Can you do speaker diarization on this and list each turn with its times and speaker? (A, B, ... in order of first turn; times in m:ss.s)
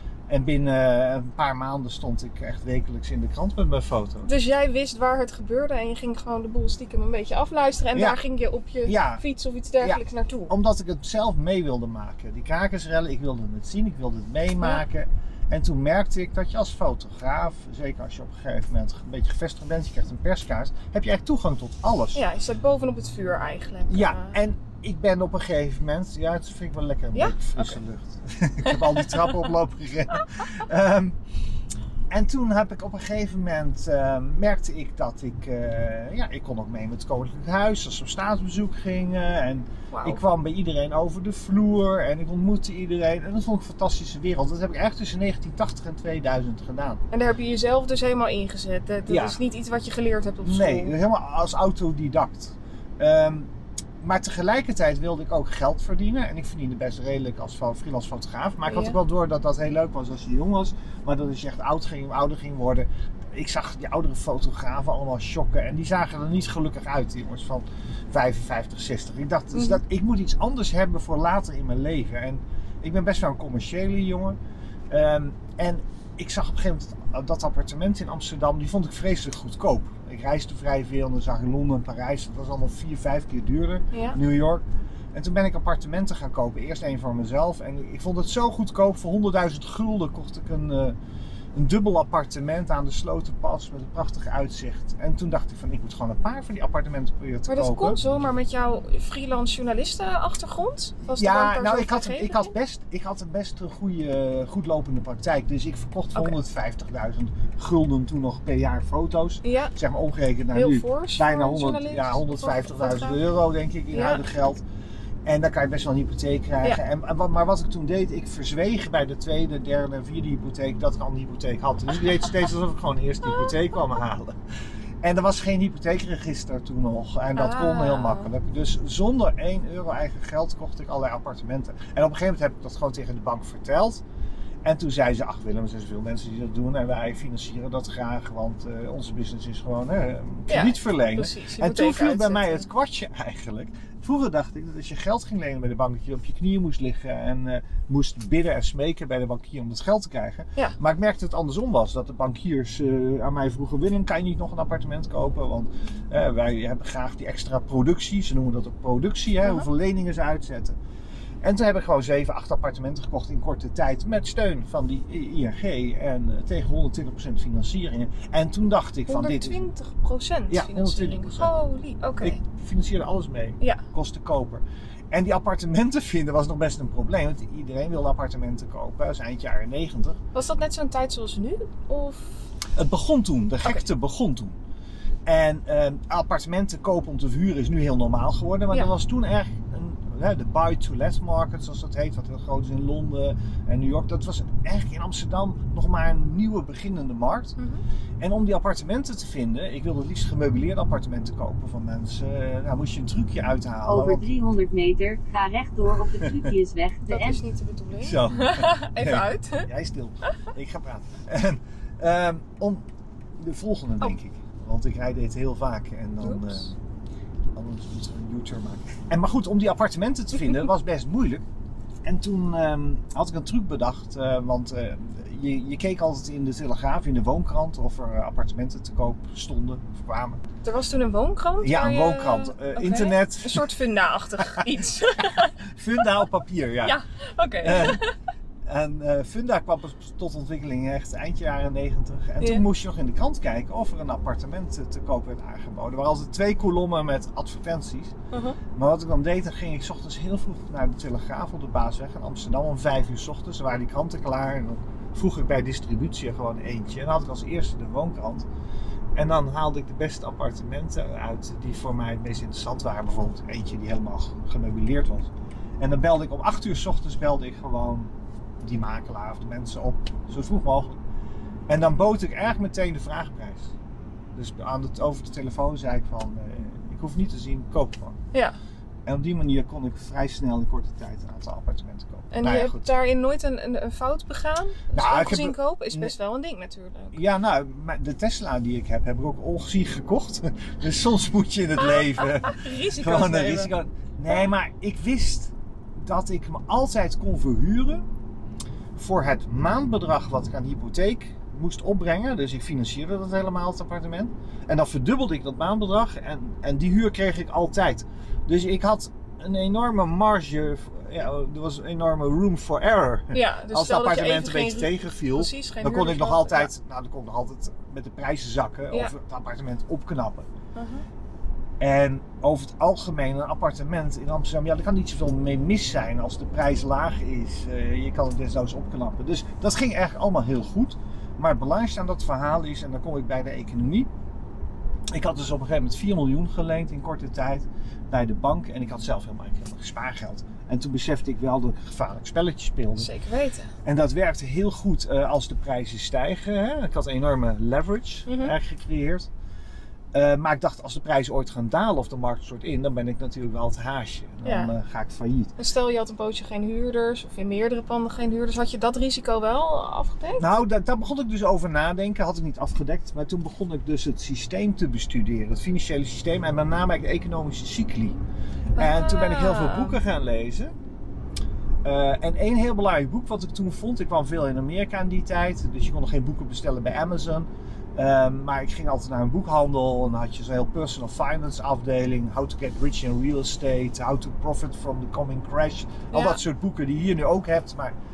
0:00.3-0:04.3 A
0:04.3-0:10.5 B
0:07.9-0:08.2 A
0:08.9-0:09.2 A
0:09.8-0:22.2 A
0:22.2-0:24.4 B
0:23.9-0:31.2 A
0:27.1-0:27.8 B
0:28.6-0:29.2 B
0:32.1-0:47.0 A
0:39.9-0:40.2 B
0:47.1-0:51.0 B
0:49.1-0:49.4 A
0:50.4-1:14.4 A
0:58.7-0:59.0 B
1:09.5-1:09.8 B
1:14.9-1:31.0 A
1:23.9-1:24.2 B
1:31.5-1:38.0 A
1:37.5-1:42.5 B
1:41.1-1:54.6 A
1:49.4-1:49.7 B
1:50.5-1:53.2 B
1:53.9-1:54.2 B
1:55.2-2:04.4 A
2:03.2-2:03.5 B
2:05.0-2:14.0 A
2:07.4-2:08.3 B
2:14.6-2:40.8 A
2:20.5-2:22.7 B
2:41.4-2:49.6 A
2:49.1-2:52.4 B
2:50.5-2:51.5 A
2:52.2-3:00.2 A
3:00.3-3:02.4 B
3:02.8-3:04.6 A
3:05.3-3:17.6 A
3:18.2-3:24.3 A
3:23.9-3:27.4 C
3:26.2-3:26.5 A
3:27.1-3:29.7 B
3:28.0-3:32.8 A
3:33.4-3:36.7 A
3:36.2-3:36.5 B
3:37.5-3:41.4 A
3:42.0-3:50.4 A
3:50.6-3:55.6 B
3:51.6-3:53.7 A
3:54.5-3:57.0 A
3:56.8-3:58.2 B
3:57.6-3:58.0 A
3:58.6-4:08.1 A
4:08.3-4:08.6 B
4:08.7-4:18.5 A
4:19.2-4:28.1 A
4:28.6-4:31.0 A
4:31.7-4:33.7 A
4:34.3-4:38.2 A
4:39.1-4:42.9 A
4:42.3-4:47.2 B
4:44.9-4:46.1 A
4:47.1-4:58.0 A
4:51.8-4:53.7 B
4:59.0-5:20.5 A
5:13.3-5:16.7 B
5:20.8-5:21.0 B
5:21.8-5:34.1 A
5:35.1-5:43.1 A
5:43.0-5:43.7 B
5:43.8-5:49.3 A
5:48.3-5:48.6 B
5:50.1-5:55.5 A
5:54.4-5:54.7 B
5:55.6-6:00.5 B
6:00.4-6:08.2 A
6:08.8-6:10.0 B
6:08.8-6:10.7 A
6:11.8-6:28.0 A
6:26.1-6:26.4 B